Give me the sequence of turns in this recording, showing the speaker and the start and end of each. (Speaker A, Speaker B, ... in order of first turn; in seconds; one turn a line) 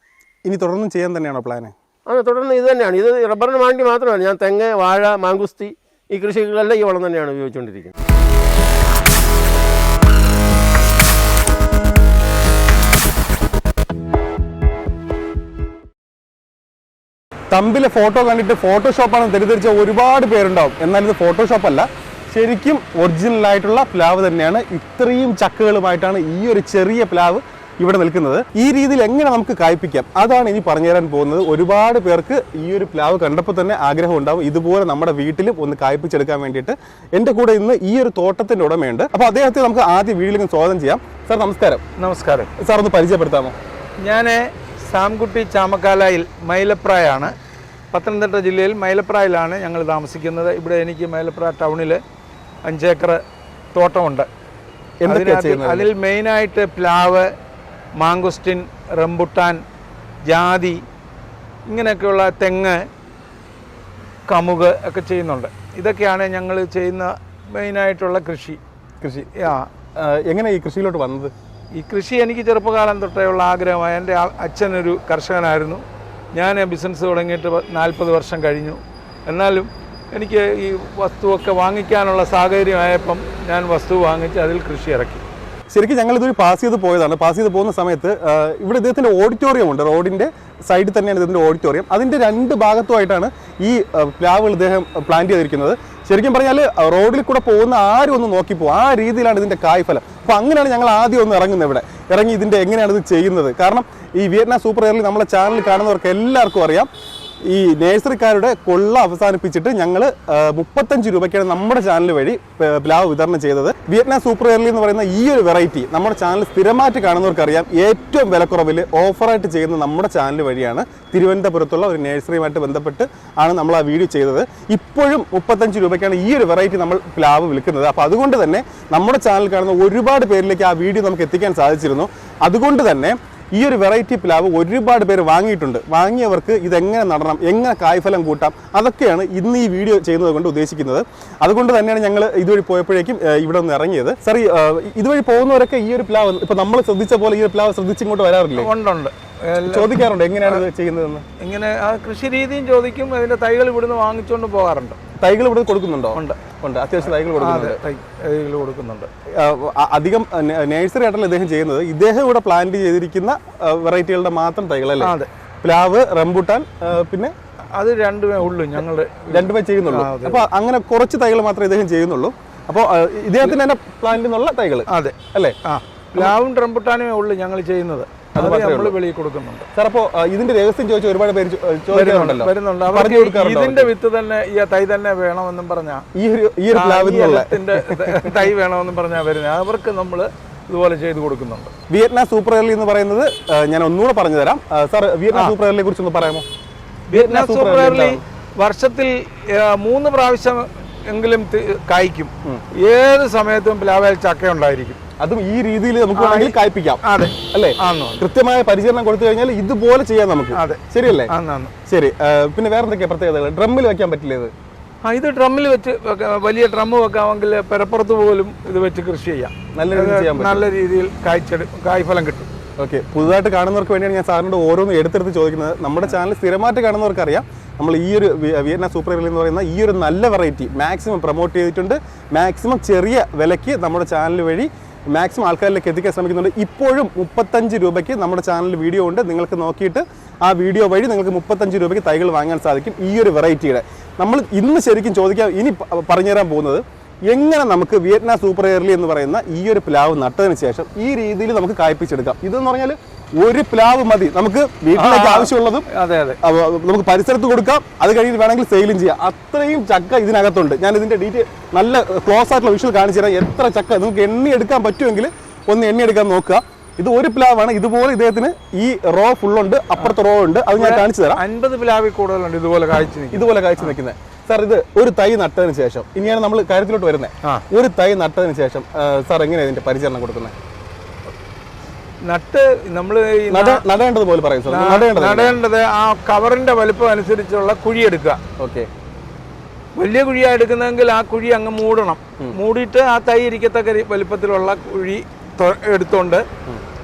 Speaker A: 0.5-1.7
Speaker B: 2.1-7.9
Speaker A: 17.5-41.8
Speaker C: 42.0-42.5
Speaker A: 42.6-43.5
Speaker C: 44.0-47.3
Speaker C: 47.9-52.0
Speaker C: 52.6-53.2
Speaker C: 53.7-54.3
Speaker A: 55.0-55.9
Speaker C: 55.1-57.3
Speaker C: 58.0-59.6
Speaker C: 60.2-60.8
Speaker C: 61.7-62.8
Speaker C: 64.3-68.6
Speaker A: 69.0-69.3
Speaker C: 69.4-69.7
Speaker A: 70.0-71.3
Speaker C: 71.8-75.8
Speaker C: 76.3-85.2
Speaker A: 85.7-106.9
Speaker A: 107.4-148.7
Speaker C: 148.6-150.6
Speaker A: 149.7-151.2
Speaker C: 151.4-155.0
Speaker A: 155.2-157.8
Speaker C: 157.0-159.1
Speaker A: 159.3-167.3
Speaker C: 165.0-165.3
Speaker C: 167.7-170.5
Speaker A: 169.3-175.6
Speaker C: 174.9-179.7
Speaker A: 178.3-179.0
Speaker A: 179.7-183.9
Speaker C: 181.9-186.0
Speaker A: 186.1-188.4
Speaker C: 186.7-191.7
Speaker A: 191.9-196.4
Speaker C: 197.1-205.0
Speaker A: 197.1-198.2
Speaker A: 205.2-207.0
Speaker C: 206.2-208.2
Speaker A: 207.5-211.3
Speaker C: 210.5-211.7
Speaker A: 211.8-214.5
Speaker C: 215.0-222.5
Speaker A: 219.7-220.7
Speaker A: 222.8-255.8
Speaker C: 254.9-256.4
Speaker A: 256.4-271.4
Speaker C: 270.8-273.9
Speaker A: 273.3-280.5
Speaker C: 282.3-283.8
Speaker A: 283.5-285.6
Speaker C: 284.7-288.4
Speaker A: 288.6-288.9
Speaker C: 290.0-296.4